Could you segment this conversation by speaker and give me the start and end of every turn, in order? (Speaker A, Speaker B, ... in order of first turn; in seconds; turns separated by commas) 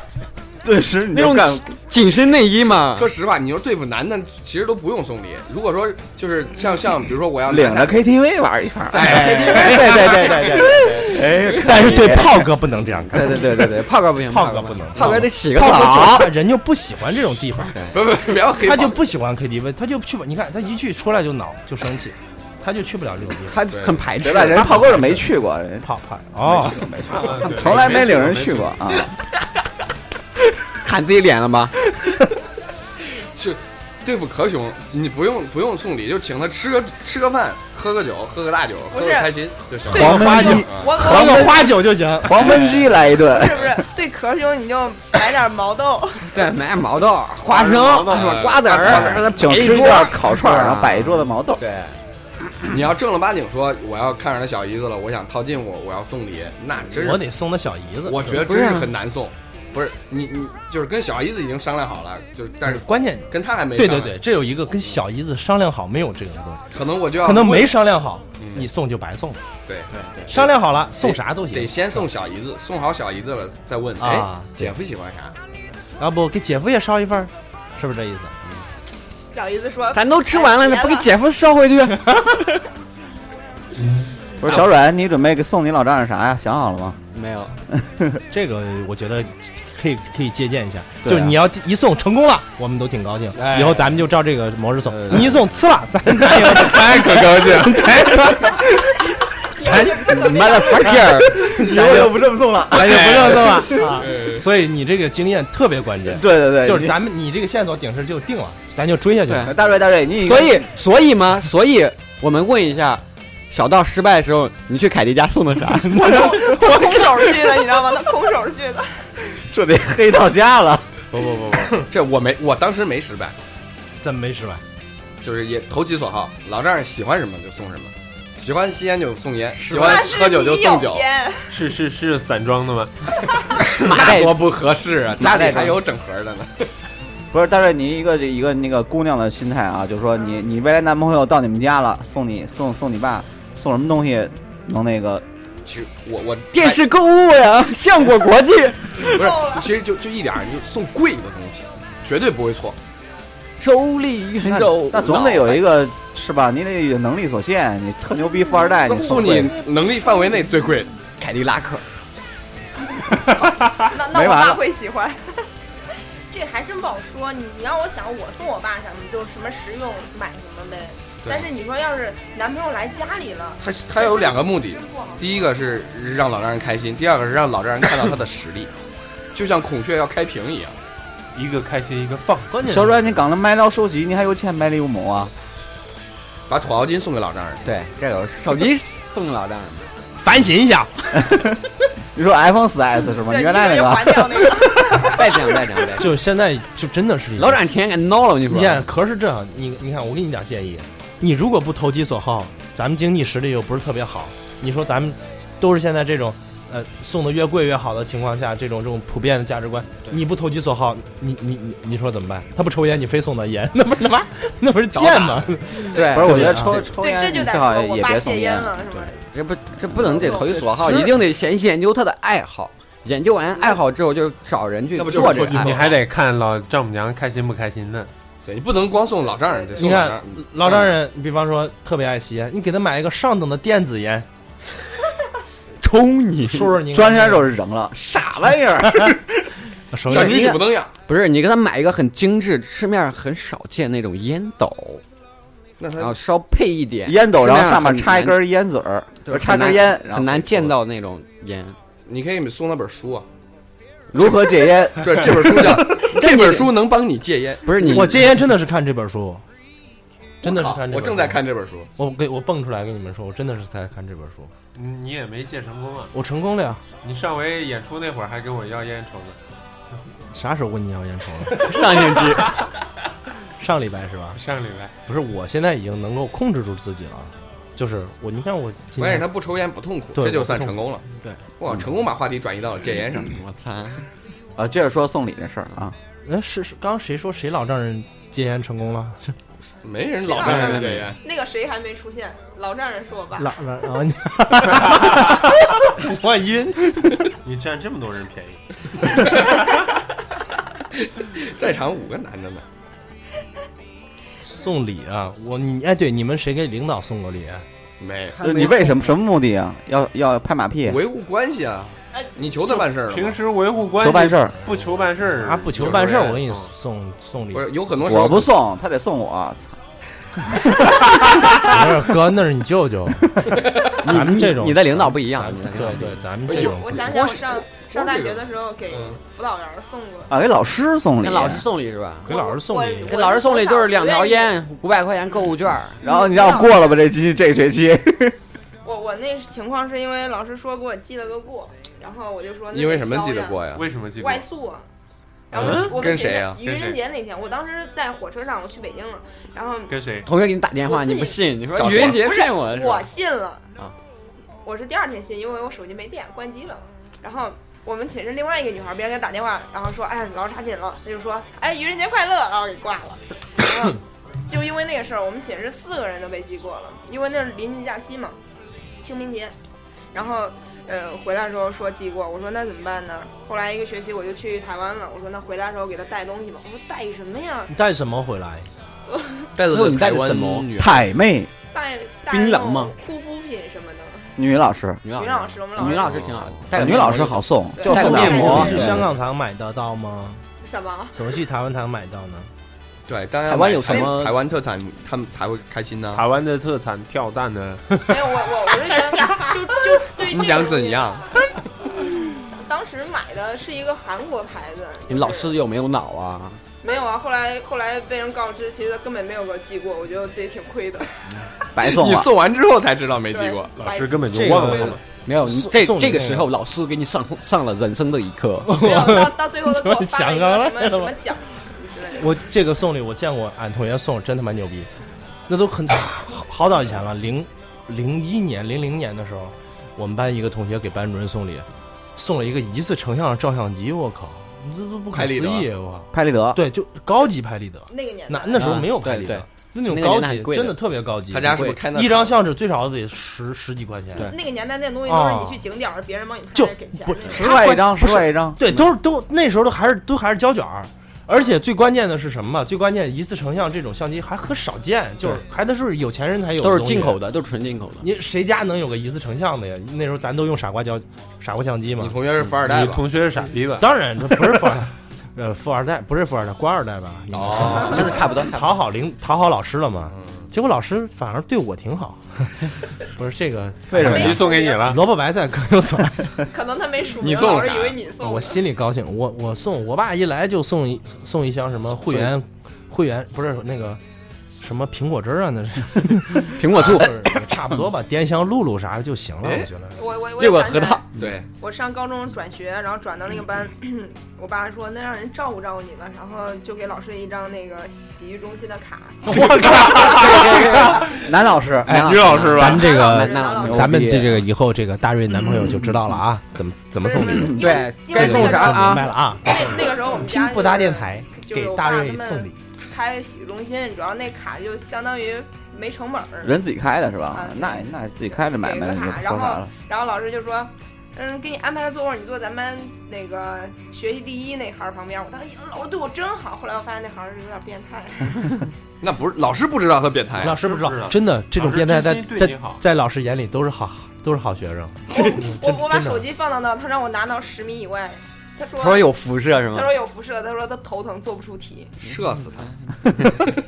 Speaker A: 0.6-1.6, Speaker B: 1.1-3.1, Speaker C: 2.9-8.1, Speaker A: 7.5-12.5, Speaker C: 8.9-10.0, Speaker B: 8.9-11.2, Speaker D: 9.0-10.1, Speaker D: 11.5-17.8, Speaker B: 13.1-16.3, Speaker C: 17.9-19.1, Speaker D: 18.6-23.6, Speaker B: 23.5-24.9, Speaker C: 23.7-24.0, Speaker A: 24.2-25.9, Speaker D: 25.0-25.2, Speaker D: 25.8-26.9, Speaker A: 26.4-29.1, Speaker E: 27.1-28.8, Speaker B: 30.8-31.7, Speaker C: 33.3-40.9, Speaker F: 38.9-39.4, Speaker A: 39.9-43.8, Speaker F: 39.9-41.8, Speaker D: 39.9-42.6, Speaker B: 42.4-42.8, Speaker F: 43.2-46.3, Speaker B: 46.3-52.0, Speaker E: 47.5-49.2, Speaker C: 48.1-49.3, Speaker A: 49.3-51.6, Speaker C: 52.7-57.3, Speaker D: 56.9-58.4, Speaker C: 58.1-64.2, Speaker B: 58.4-58.9, Speaker D: 62.6-66.6, Speaker C: 66.7-67.8, Speaker D: 67.2-69.4, Speaker C: 68.4-68.7, Speaker C: 69.7-75.4, Speaker B: 69.9-70.3, Speaker D: 70.3-72.1, Speaker D: 74.0-74.5, Speaker D: 76.0-78.3, Speaker F: 79.3-81.1, Speaker B: 79.9-82.0, Speaker A: 84.4-87.0, Speaker B: 87.1-87.5, Speaker A: 87.8-88.2, Speaker D: 88.3-98.7, Speaker A: 91.0-91.3, Speaker C: 93.3-93.9, Speaker B: 94.9-95.3, Speaker F: 99.6-100.7, Speaker D: 99.6-100.1, Speaker B: 100.0-101.4, Speaker A: 100.8-103.8, Speaker D: 101.3-109.6, Speaker C: 102.8-104.5, Speaker A: 106.1-107.0, Speaker B: 109.2-109.5, Speaker A: 109.4-110.7, Speaker B: 110.2-116.2, Speaker D: 115.8-116.7, Speaker F: 115.9-119.1, Speaker A: 119.4-120.8, Speaker D: 121.1-121.8, Speaker C: 121.9-123.3, Speaker D: 124.0-124.6, Speaker C: 125.2-131.1, Speaker D: 129.6-130.1, Speaker F: 129.7-131.6, Speaker E: 131.5-132.9, Speaker C: 133.7-136.7, Speaker B: 133.8-134.6, Speaker B: 135.2-135.8, Speaker A: 135.3-135.6, Speaker A: 137.3-145.2, Speaker C: 145.6-146.8, Speaker B: 146.5-149.2, Speaker C: 149.0-152.8, Speaker F: 149.2-149.7, Speaker B: 153.6-155.6, Speaker A: 154.4-159.6, Speaker C: 155.0-155.6, Speaker C: 158.8-160.9, Speaker B: 161.2-161.8, Speaker F: 163.9-165.5, Speaker A: 164.0-164.6, Speaker F: 166.3-175.6, Speaker C: 171.2-171.5, Speaker C: 173.6-178.7, Speaker C: 179.3-180.8, Speaker E: 181.3-182.8, Speaker D: 182.5-183.0, Speaker A: 182.6-185.3, Speaker C: 186.5-187.6, Speaker B: 187.6-189.9, Speaker D: 190.2-191.2, Speaker A: 192.1-194.9, Speaker F: 193.2-195.2, Speaker B: 195.0-196.1, Speaker D: 195.9-197.6, Speaker B: 197.4-198.8, Speaker D: 198.5-216.9, Speaker C: 214.9-215.6, Speaker B: 215.9-216.9, Speaker A: 215.9-218.7, Speaker F: 216.9-219.2, Speaker B: 218.9-225.8, Speaker F: 220.2-220.5, Speaker A: 220.2-221.1, Speaker C: 224.9-226.0, Speaker E: 225.2-228.1, Speaker C: 228.4-231.0, Speaker D: 229.8-234.2, Speaker B: 235.8-236.8, Speaker D: 236.5-237.5, Speaker A: 236.9-239.2, Speaker D: 238.8-239.2, Speaker D: 239.9-240.6, Speaker C: 240.1-240.9, Speaker B: 240.1-245.0, Speaker C: 245.8-246.1, Speaker B: 246.0-248.4, Speaker A: 247.1-250.7, Speaker B: 249.2-251.8, Speaker C: 252.1-253.2, Speaker A: 254.1-255.4, Speaker C: 254.9-257.7, Speaker B: 256.0-256.7, Speaker B: 257.6-258.3, Speaker D: 257.8-259.4, Speaker C: 260.4-261.9, Speaker D: 260.4-261.4, Speaker D: 262.0-264.5, Speaker E: 264.7-266.1, Speaker D: 266.1-266.8, Speaker E: 267.0-269.4, Speaker D: 270.3-272.2, Speaker B: 271.6-272.5, Speaker D: 273.6-274.4, Speaker E: 274.3-274.9, Speaker D: 275.1-279.3, Speaker C: 279.0-281.0, Speaker D: 280.2-280.7, Speaker C: 281.6-283.3, Speaker B: 283.3-284.0, Speaker A: 284.6-285.9, Speaker D: 286.2-289.4, Speaker C: 289.8-291.2, Speaker F: 290.2-293.5, Speaker B: 290.4-291.1, Speaker D: 293.4-297.3, Speaker E: 297.4-299.3, Speaker C: 300.9-302.6, Speaker D: 304.4-307.6, Speaker C: 308.0-309.0, Speaker A: 308.4-311.0, Speaker C: 310.9-313.4, Speaker E: 312.8-316.7, Speaker A: 314.0-314.6, Speaker D: 314.7-317.7, Speaker C: 315.8-316.1, Speaker C: 317.5-318.5, Speaker A: 318.0-319.8, Speaker D: 321.6-327.1, Speaker B: 323.9-326.2, Speaker C: 326.4-329.2, Speaker F: 326.5-330.3, Speaker A: 330.3-331.7, Speaker B: 331.2-332.3, Speaker D: 332.2-333.2, Speaker F: 332.3-334.6, Speaker B: 333.1-336.0, Speaker F: 336.0-336.9, Speaker A: 336.0-338.4, Speaker F: 338.8-343.6, Speaker C: 342.7-343.8, Speaker E: 343.7-344.4, Speaker F: 344.1-344.9, Speaker F: 345.5-350.0, Speaker C: 345.5-346.6, Speaker E: 345.6-346.1, Speaker E: 346.6-347.0, Speaker E: 349.9-350.3, Speaker B: 350.2-353.1, Speaker F: 350.9-353.7, Speaker C: 351.7-352.3, Speaker F: 354.6-368.4, Speaker F: 369.0-369.6, Speaker F: 370.1-377.7, Speaker D: 377.7-378.7, Speaker F: 379.1-379.5, Speaker C: 379.6-381.0, Speaker B: 379.7-380.7, Speaker A: 380.8-381.5, Speaker F: 381.7-384.4, Speaker B: 382.3-382.9, Speaker A: 384.4-385.0, Speaker B: 385.0-389.0, Speaker F: 385.1-386.3, Speaker C: 385.8-386.6, Speaker A: 386.7-389.1, Speaker F: 387.8-388.9, Speaker D: 387.9-390.4, Speaker F: 390.6-391.2, Speaker D: 391.1-392.5, Speaker C: 393.1-396.2, Speaker B: 393.5-394.3, Speaker E: 396.1-397.8, Speaker F: 398.1-401.3, Speaker C: 400.2-401.3, Speaker F: 402.5-405.6, Speaker B: 405.1-406.6, Speaker F: 406.8-411.1, Speaker A: 411.7-412.3, Speaker C: 411.8-413.7, Speaker F: 413.3-414.9, Speaker E: 413.8-415.0, Speaker D: 414.3-416.5, Speaker B: 415.2-418.8, Speaker D: 418.7-421.2, Speaker F: 418.7-422.4, Speaker D: 422.2-424.9, Speaker D: 425.5-444.4, Speaker C: 435.1-435.7, Speaker A: 436.1-436.6, Speaker F: 437.9-438.9, Speaker B: 438.6-440.8, Speaker C: 441.3-442.4, Speaker B: 441.5-441.8, Speaker F: 444.2-447.6, Speaker D: 445.1-445.6, Speaker D: 446.5-457.2, Speaker A: 447.3-448.6, Speaker B: 456.6-458.1, Speaker D: 458.0-462.2, Speaker C: 462.0-463.0, Speaker E: 462.6-463.9, Speaker D: 463.8-476.4, Speaker C: 467.3-468.2, Speaker B: 467.6-468.8, Speaker C: 470.1-470.4, Speaker A: 473.9-474.4, Speaker E: 473.9-475.0, Speaker F: 474.1-475.0, Speaker F: 476.5-478.6, Speaker C: 477.2-478.0, Speaker D: 478.2-484.0, Speaker D: 484.6-490.0, Speaker B: 486.6-487.1, Speaker C: 489.4-489.7, Speaker F: 489.9-499.3, Speaker B: 490.4-491.0, Speaker C: 491.2-491.5, Speaker D: 499.2-500.9, Speaker B: 499.9-501.2, Speaker A: 500.5-502.3, Speaker E: 501.9-502.9, Speaker B: 501.9-504.2, Speaker D: 502.5-512.6, Speaker F: 502.6-503.9, Speaker A: 503.7-504.4, Speaker F: 507.0-516.6, Speaker B: 507.6-509.1, Speaker A: 516.4-519.7, Speaker F: 517.3-517.9, Speaker F: 518.4-528.5, Speaker C: 529.0-530.6, Speaker D: 530.4-536.2, Speaker E: 530.5-532.8, Speaker F: 535.1-539.1, Speaker B: 538.8-539.9, Speaker F: 539.7-541.9, Speaker C: 542.0-542.7